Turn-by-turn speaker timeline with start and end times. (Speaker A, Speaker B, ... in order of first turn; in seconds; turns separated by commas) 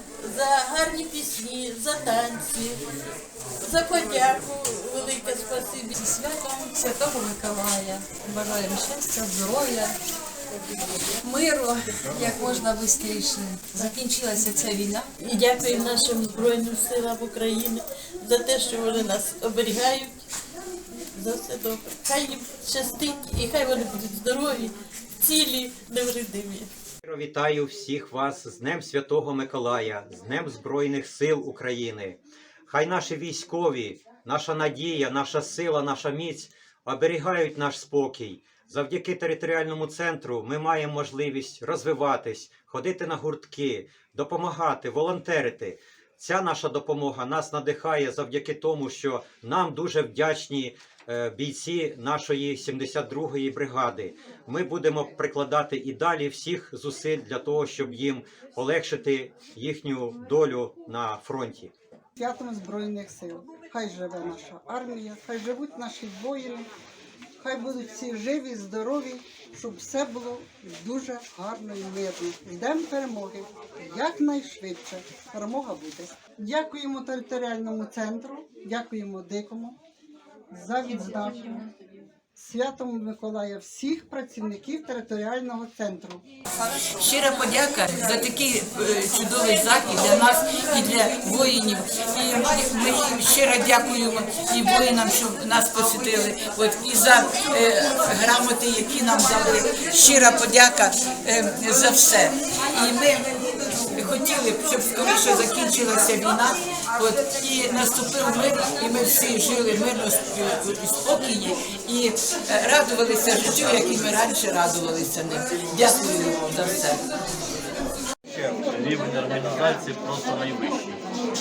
Speaker A: 0.2-2.8, Speaker A: 3.6-5.9, Speaker B: 5.9-10.0, Speaker B: 11.2-15.1, Speaker A: 15.2-20.2, Speaker A: 21.1-26.7, Speaker C: 27.0-61.7, Speaker D: 62.2-66.7, Speaker D: 67.4-79.8, Speaker D: 80.5-81.7, Speaker D: 82.3-86.2, Speaker E: 87.0-117.0, Speaker F: 118.6-121.0